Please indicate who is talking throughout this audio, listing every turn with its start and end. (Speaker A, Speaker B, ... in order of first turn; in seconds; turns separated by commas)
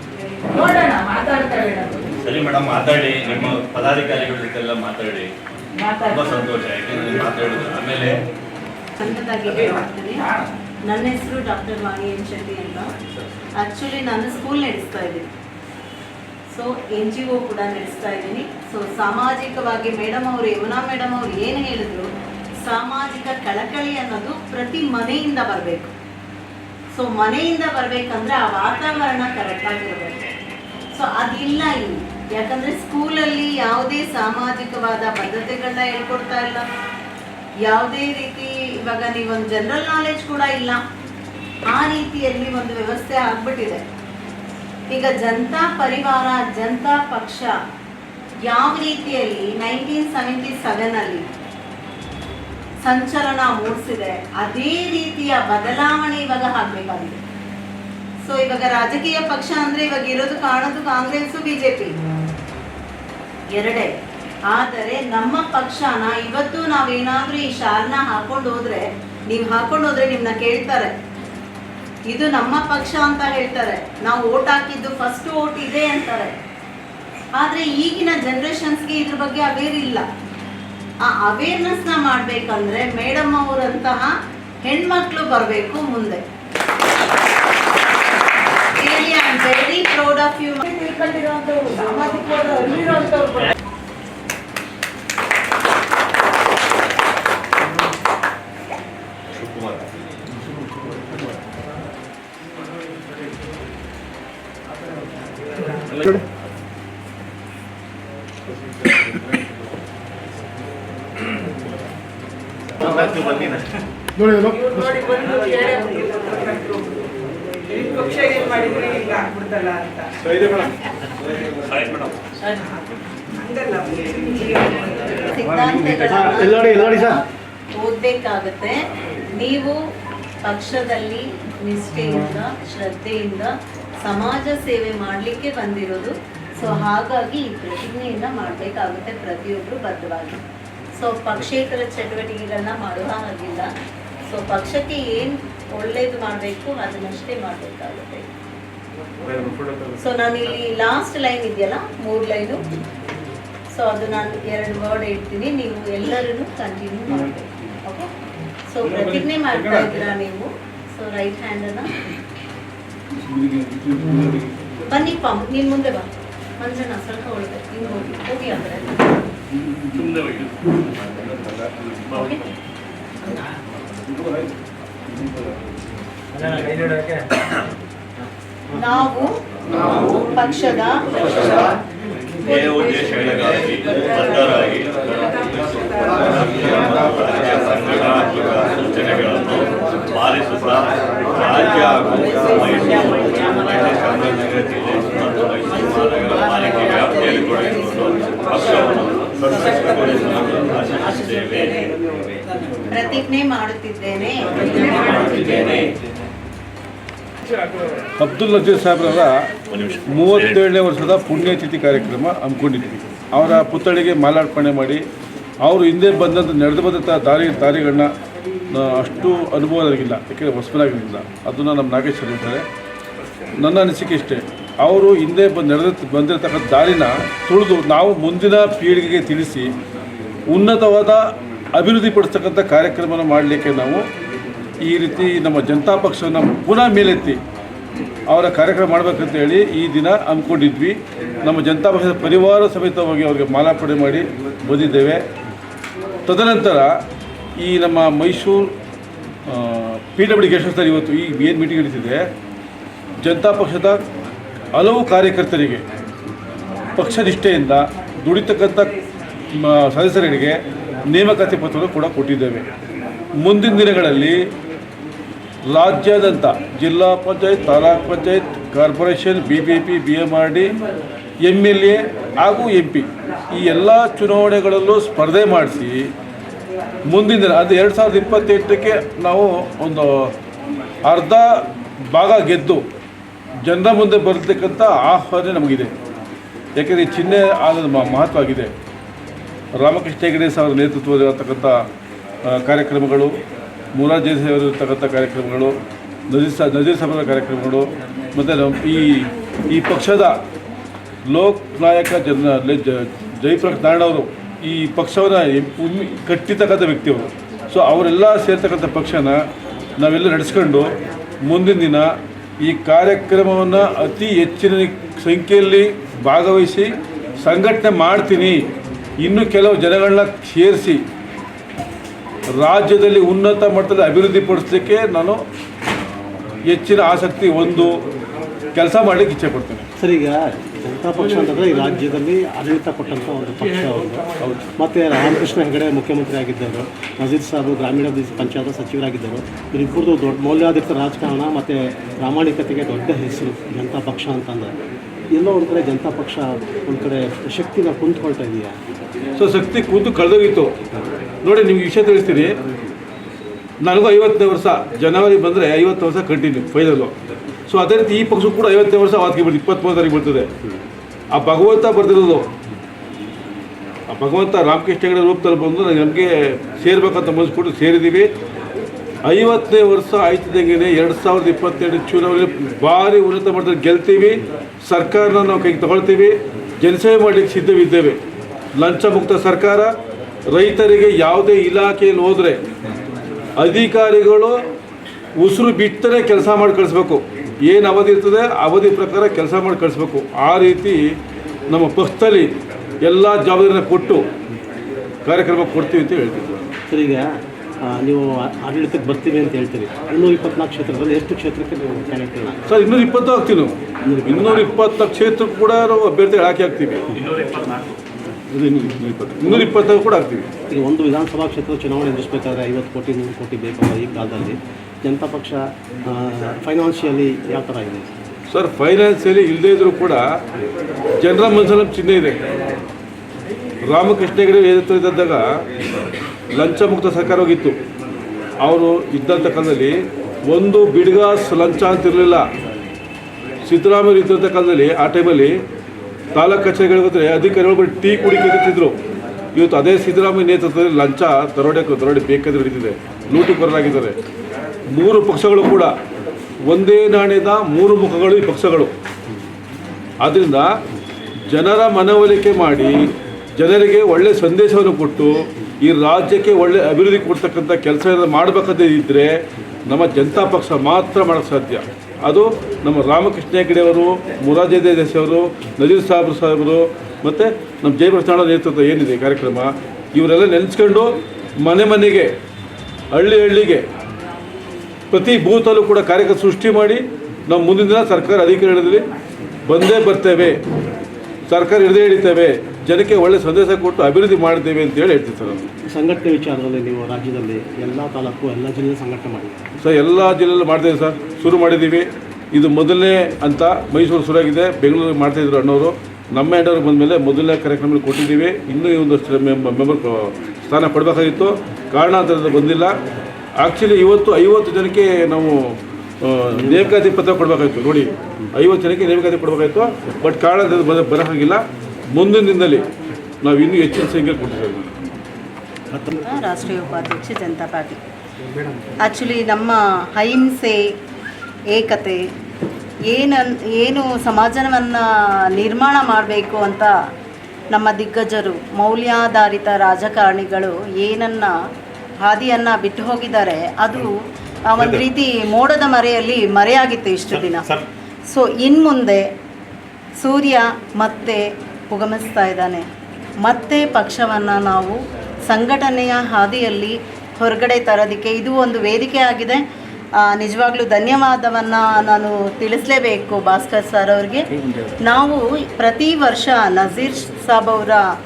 Speaker A: 0.5-2.1, Speaker B: 2.2-5.3, Speaker A: 5.8-6.4, Speaker B: 6.0-8.2, Speaker C: 9.0-10.2, Speaker C: 10.9-12.9, Speaker C: 13.6-15.3, Speaker C: 16.5-22.1, Speaker C: 22.6-25.9, Speaker C: 27.0-30.3, Speaker C: 30.9-36.6, Speaker C: 37.6-40.8, Speaker C: 41.7-43.8, Speaker C: 44.9-47.5, Speaker C: 48.5-51.2, Speaker C: 52.9-57.2, Speaker C: 58.3-61.9, Speaker C: 63.5-63.9, Speaker C: 64.5-70.9, Speaker C: 72.1-76.3, Speaker C: 77.4-80.1, Speaker C: 81.1-84.1, Speaker C: 84.7-86.2, Speaker C: 88.7-90.7, Speaker A: 90.7-93.5, Speaker B: 99.3-99.9, Speaker B: 112.8-113.5, Speaker A: 114.3-116.6, Speaker B: 121.7-122.2, Speaker C: 122.4-122.7, Speaker C: 125.3-128.8, Speaker D: 126.1-127.2, Speaker C: 129.3-129.8, Speaker C: 130.4-133.5, Speaker C: 134.1-140.4, Speaker C: 141.0-143.7, Speaker C: 144.3-148.2, Speaker E: 149.4-149.7, Speaker C: 150.0-152.7, Speaker C: 153.7-158.1, Speaker C: 158.7-161.9, Speaker E: 158.9-159.6, Speaker E: 163.2-164.5, Speaker C: 164.9-166.1, Speaker C: 166.6-168.9, Speaker C: 172.1-172.4, Speaker C: 178.7-179.3, Speaker C: 179.9-181.8, Speaker B: 182.4-201.9, Speaker C: 202.9-205.6, Speaker E: 208.2-209.4, Speaker B: 209.7-210.6, Speaker E: 210.1-215.0, Speaker E: 215.6-218.1, Speaker E: 218.7-222.7, Speaker E: 223.6-229.7, Speaker E: 230.5-234.0, Speaker E: 234.8-237.4, Speaker E: 238.3-245.2, Speaker E: 246.3-246.9, Speaker E: 247.6-248.7, Speaker E: 249.5-252.3, Speaker E: 253.2-254.0, Speaker E: 254.8-255.8, Speaker E: 256.9-258.9, Speaker E: 259.5-260.6, Speaker E: 261.1-262.7, Speaker E: 263.4-264.4, Speaker E: 265.7-270.7, Speaker E: 271.4-276.1, Speaker E: 277.1-280.3, Speaker E: 281.1-281.5, Speaker E: 282.1-282.8, Speaker E: 283.6-285.9, Speaker E: 286.8-288.7, Speaker E: 289.8-291.7, Speaker E: 292.5-293.4, Speaker E: 293.9-295.8, Speaker E: 296.3-297.8, Speaker E: 298.4-300.4, Speaker E: 301.3-309.4, Speaker E: 310.0-310.9, Speaker E: 311.4-312.1, Speaker E: 312.6-316.9, Speaker E: 317.4-318.6, Speaker E: 319.2-321.0, Speaker E: 322.6-325.4, Speaker E: 326.7-327.9, Speaker E: 328.8-329.9, Speaker D: 330.0-344.7, Speaker D: 345.3-348.8, Speaker E: 349.4-350.7, Speaker E: 351.4-352.6, Speaker E: 353.8-357.1, Speaker E: 357.7-360.5, Speaker E: 361.3-362.5, Speaker E: 364.1-368.3, Speaker E: 369.3-378.2, Speaker E: 378.8-379.9, Speaker E: 380.5-382.6, Speaker E: 383.6-384.5, Speaker E: 385.4-391.1, Speaker E: 391.7-392.5, Speaker E: 393.0-394.2, Speaker E: 395.2-396.7, Speaker D: 396.9-397.3, Speaker D: 397.8-402.6, Speaker E: 402.7-407.0, Speaker D: 404.0-404.7, Speaker B: 407.3-407.9, Speaker E: 408.5-410.5, Speaker D: 409.4-409.7, Speaker D: 410.7-418.1, Speaker E: 418.5-420.2, Speaker E: 421.2-422.4, Speaker E: 423.9-425.5, Speaker E: 426.5-427.8, Speaker E: 428.6-430.0, Speaker E: 430.5-432.4, Speaker E: 433.7-435.5, Speaker E: 436.3-438.9, Speaker E: 439.6-444.2, Speaker E: 444.9-445.9, Speaker E: 446.7-448.9, Speaker E: 450.2-450.7, Speaker E: 451.5-453.0, Speaker E: 453.6-472.3, Speaker E: 473.1-473.8, Speaker E: 475.1-479.1, Speaker E: 479.7-480.6, Speaker E: 481.5-485.7, Speaker D: 485.9-489.7, Speaker E: 489.8-502.9, Speaker E: 503.6-511.6, Speaker D: 506.6-507.0, Speaker E: 512.2-512.9, Speaker E: 513.4-514.9, Speaker D: 515.9-516.3, Speaker C: 516.2-518.0, Speaker D: 518.5-518.9, Speaker C: 519.0-520.8, Speaker C: 521.7-522.2, Speaker C: 523.1-526.9, Speaker C: 527.7-531.5, Speaker C: 532.2-534.1, Speaker C: 534.7-537.7, Speaker B: 534.8-535.0, Speaker B: 537.3-537.9, Speaker C: 538.3-539.2, Speaker C: 540.2-542.9, Speaker C: 543.5-549.6, Speaker C: 550.3-554.5, Speaker C: 555.0-558.0